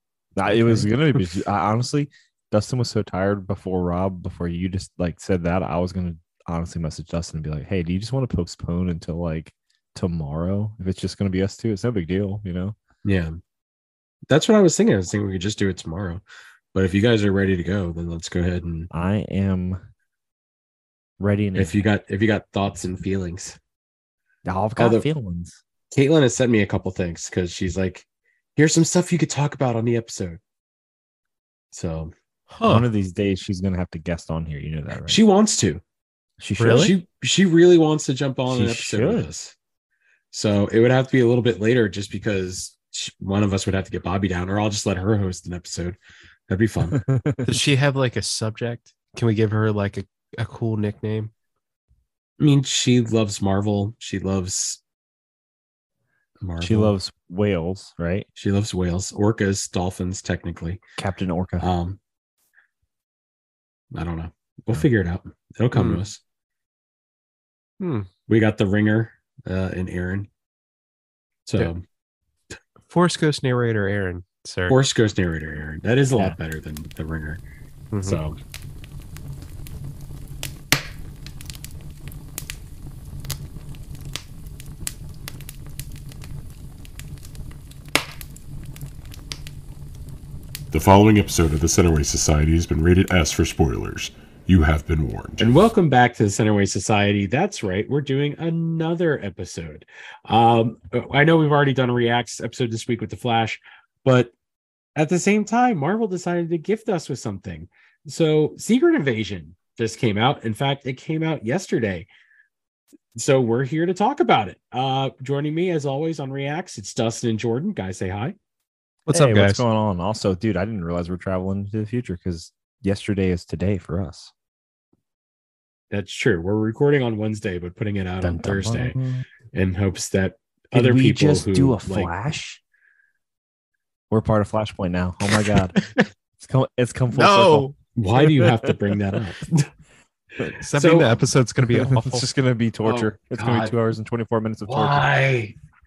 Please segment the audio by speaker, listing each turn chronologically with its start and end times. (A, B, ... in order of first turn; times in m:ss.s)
0:00.4-0:12.8 A
0:00.5-0:00.9 B
0:13.0-0:13.4 C
0:14.3-0:16.2 C
0:16.7-0:18.9 C
0:18.9-0:19.8 A
0:21.2-0:21.8 A
0:21.6-0:23.6 C
0:24.4-0:25.6 A
0:24.8-0:25.1 C
0:25.9-0:30.4 C
0:31.7-0:32.1 C
0:32.5-0:32.9 B
0:32.6-0:35.2 A
0:35.1-0:35.8 C
0:36.4-0:37.0 A
0:36.6-0:36.9 B
0:36.7-0:39.6 C
0:38.5-0:39.3 A
0:40.3-0:47.0 C
0:46.9-0:47.6 A
0:47.4-0:51.3 B
0:52.4-0:54.8 C
0:56.4-0:57.0 C
0:56.6-0:58.3 A
0:58.4-1:00.8 C
1:01.0-1:01.7 A
1:01.6-1:02.0 C
1:03.9-1:06.2 C
1:05.7-1:06.0 B
1:07.8-1:08.1 B
1:08.3-1:10.3 C
1:11.5-1:11.8 C
1:12.9-1:14.8 B
1:14.7-1:17.4 C
1:17.9-1:18.2 B
1:18.0-1:18.4 C
1:30.7-1:35.6 D
1:35.4-1:44.3 C
1:45.0-1:52.1 C
1:53.2-1:58.4 C
1:59.1-1:59.6 B
1:59.1-2:04.3 A
2:05.9-2:09.0 C
2:08.2-2:09.2 A
2:09.5-2:12.1 C
2:10.7-2:12.6 A
2:14.1-2:15.8 A
2:15.3-2:16.0 B
2:16.4-2:18.7 A
2:17.1-2:17.8 B
2:18.0-2:19.7 C
2:20.6-2:22.3 B
2:20.8-2:21.2 C
2:21.6-2:25.1 A
2:22.8-2:23.8 C
2:24.7-2:25.6 C